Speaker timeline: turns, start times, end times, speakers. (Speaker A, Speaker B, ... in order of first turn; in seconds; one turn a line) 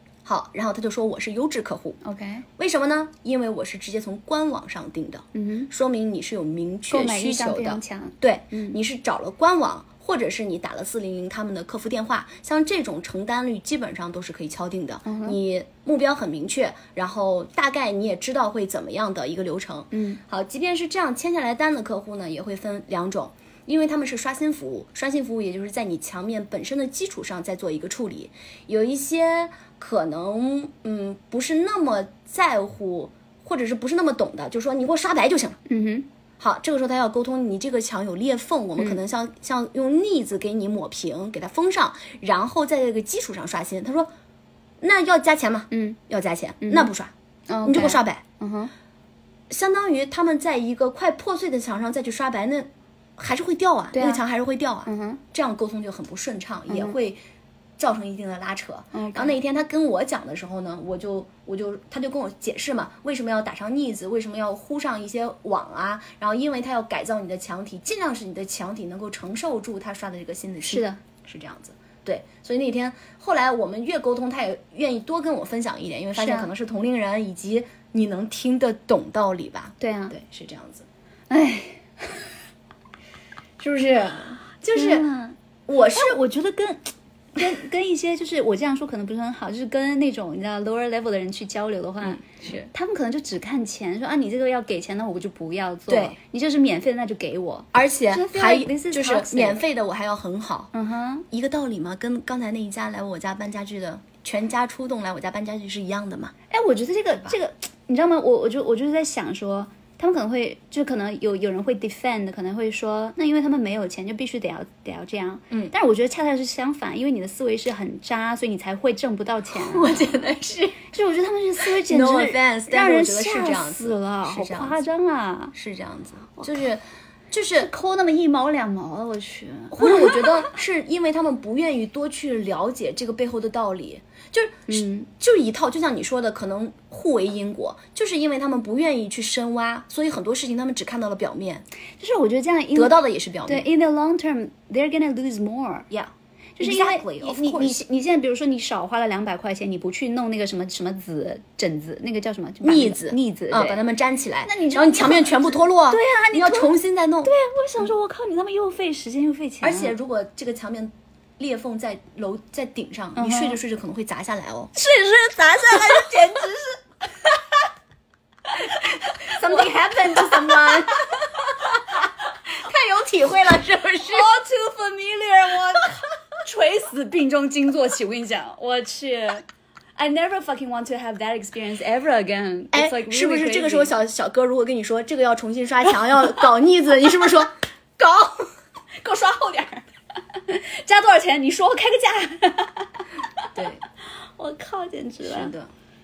Speaker A: 0.2-2.0
Speaker B: 2.0-2.4
Speaker A: 2.5-35.6
Speaker B: 5.3-5.7
Speaker B: 6.9-8.8
Speaker B: 15.0-15.4
Speaker B: 19.9-20.2
Speaker B: 35.7-36.1
Speaker A: 36.4-44.1
Speaker A: 44.8-47.1
Speaker B: 45.7-46.0
Speaker B: 46.6-46.9
Speaker B: 47.5-48.7
Speaker A: 47.6-48.2
Speaker A: 49.5-57.2
Speaker B: 53.9-54.2
Speaker B: 54.9-55.2
Speaker B: 56.7-57.0
Speaker A: 57.8-80.9
Speaker B: 58.9-59.4
Speaker B: 70.6-71.0
Speaker B: 76.1-76.5
Speaker B: 79.8-80.1
Speaker B: 81.3-82.3
Speaker A: 83.6-85.1
Speaker B: 84.7-85.3
Speaker A: 85.7-86.2
Speaker B: 85.9-99.6
Speaker A: 92.0-92.7
Speaker A: 95.9-96.2
Speaker A: 97.7-100.7
Speaker B: 100.7-101.2
Speaker A: 101.3-106.3
Speaker B: 106.5-120.2
Speaker A: 119.5-120.9
Speaker B: 120.8-125.5
Speaker A: 121.6-124.8
Speaker A: 125.5-127.7
Speaker B: 127.5-130.5
Speaker A: 129.7-141.7
Speaker B: 134.7-135.1
Speaker B: 142.0-145.9
Speaker A: 142.7-143.7
Speaker A: 145.9-147.8
Speaker B: 146.6-153.8
Speaker A: 152.6-157.3
Speaker B: 154.4-159.9
Speaker A: 159.6-164.7
Speaker B: 163.2-163.6
Speaker B: 164.7-167.3
Speaker B: 168.6-171.0
Speaker A: 169.1-171.7
Speaker A: 172.5-174.3
Speaker B: 174.1-179.4
Speaker B: 179.9-183.9
Speaker A: 182.7-188.5
Speaker B: 189.0-193.6
Speaker A: 193.5-193.8
Speaker B: 194.4-195.5
Speaker A: 195.2-195.7